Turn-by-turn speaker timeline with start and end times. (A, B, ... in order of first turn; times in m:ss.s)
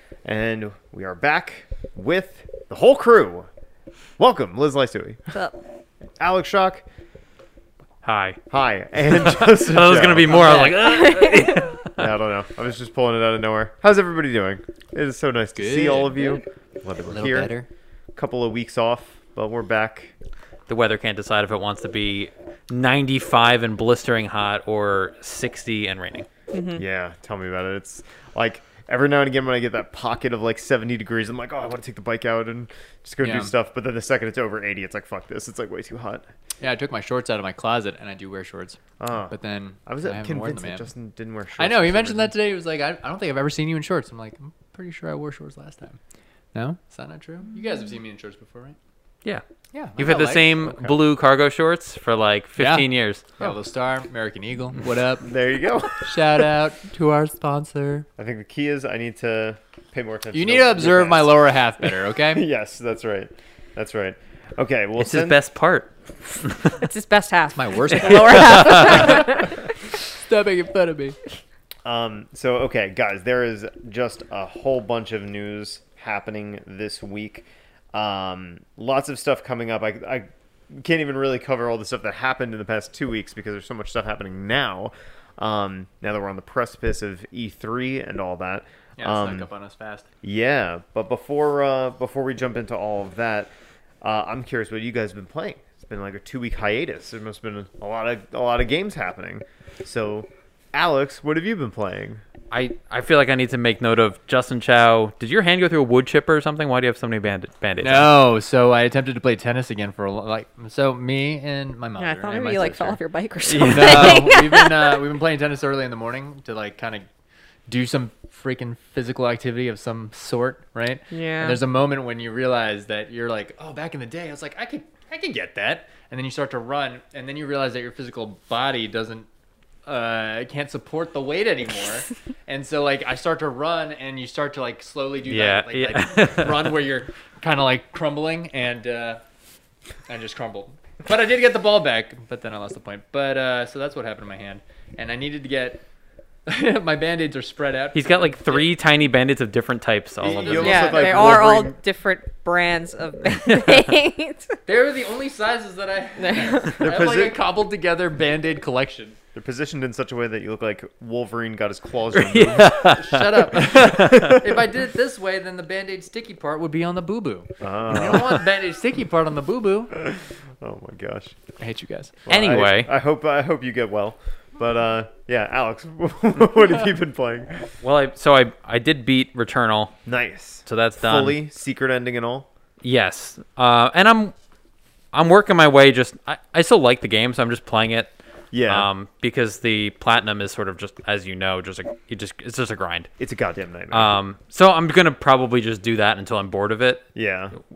0:00.2-0:03.5 A
0:04.2-0:05.2 A
0:06.2-0:06.8 A
0:08.0-0:08.4 B
0:08.5-0:10.8 A
0:09.1-0:12.1 B
0:10.6-0:11.7 C
0:12.0-0:17.5 A
0:15.5-0:16.4 D
0:17.0-0:17.7 D
0:18.1-0:20.1 A
0:20.7-0:26.2 B
0:26.5-0:26.8 C
0:26.8-0:36.3 A
0:33.2-0:33.5 D
0:36.6-0:40.9 D
0:39.0-0:42.3 A
0:41.6-0:46.0 D
0:46.5-0:48.8 D
0:49.7-0:50.7 D
0:50.0-0:53.2 B
0:50.6-0:51.0 A
0:52.6-0:55.4 D
0:55.2-0:56.4 A
0:55.9-0:58.1 D
0:58.2-1:05.4 A
1:00.3-1:02.4 D
1:05.0-1:06.8 B
1:06.7-1:09.7 C
1:07.5-1:11.2 D
1:08.3-1:09.1 B
1:11.8-1:29.5 A
1:29.0-1:30.1 D
1:30.2-1:42.2 A
1:42.5-1:48.2 B
1:47.8-1:53.0 D
1:52.0-1:55.0 C
1:53.5-1:54.3 B
1:53.5-1:57.0 D
1:57.7-2:09.3 D
2:01.1-2:01.6 C
2:09.8-2:19.2 D
2:15.2-2:16.8 B
2:20.1-2:25.8 D
2:26.4-2:28.7 D
2:27.9-2:31.0 B
2:30.2-2:31.8 A
2:30.2-2:31.4 D
2:30.6-2:34.6 C
2:34.6-2:39.2 D
2:36.2-2:36.9 C
2:36.8-2:37.4 A
2:39.3-2:42.8 A
2:42.2-2:43.3 B
2:42.5-2:49.9 D
2:43.7-2:44.6 A
2:47.6-2:48.4 A
2:50.0-2:51.4 A
2:51.6-2:52.2 D
2:52.2-2:57.7 A
2:52.3-2:52.9 B
2:57.8-2:59.9 B
3:00.0-3:02.5 A
3:00.6-3:01.4 B
3:02.8-3:04.3 B
3:05.1-3:08.1 B
3:08.5-3:08.9 A
3:08.7-3:13.1 B
3:13.2-3:14.1 A
3:13.9-3:17.0 B
3:17.1-3:17.6 A